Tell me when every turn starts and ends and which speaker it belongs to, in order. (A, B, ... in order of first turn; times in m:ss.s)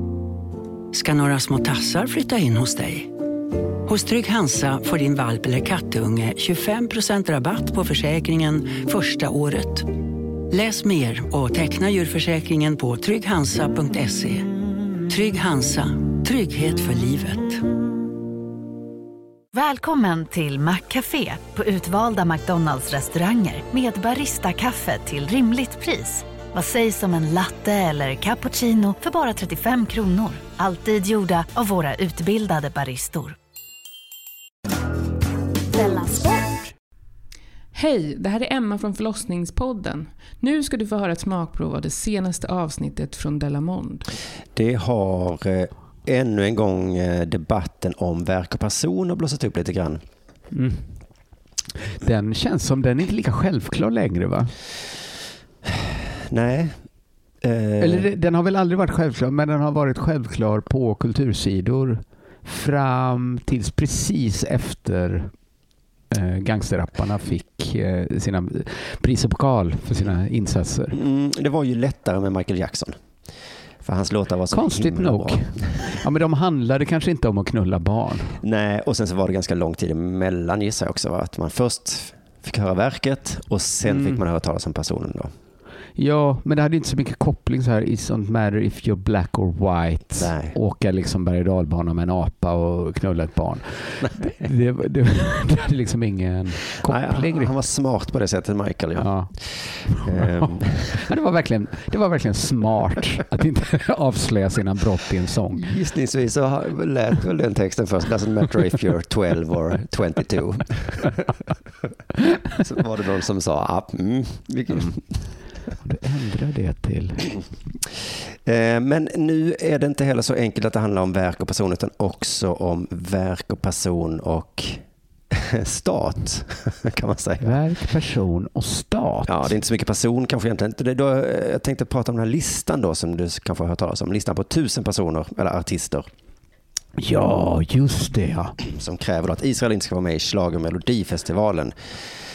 0:00.9-0:03.1 A
0:03.9-0:09.9 A
0:10.5-0:14.5 A
0:15.1-0:17.6 A
0:19.5-0:33.4 B
0:37.8-0:44.1 C
0:44.6-0:50.0 D
0:50.5-0:51.4 E
0:51.9-0:54.6 E
0:56.3-0:58.1 D
0:57.8-1:05.4 E
1:06.1-1:11.0 E
1:10.9-1:13.0 D
1:13.8-1:16.0 D
1:14.5-1:18.4 E
1:18.4-1:25.3 D
1:23.8-1:24.2 E
1:26.0-1:37.6 E
1:30.2-1:30.6 D
1:34.0-1:34.5 D
1:36.8-1:41.1 D
1:39.0-1:45.7 E
1:45.6-1:51.3 D
1:52.5-1:55.5 D
1:54.7-1:57.6 E
1:58.4-2:07.9 D
2:07.4-2:09.5 E
2:09.3-2:16.1 D
2:17.0-2:18.6 E
2:18.7-2:21.8 D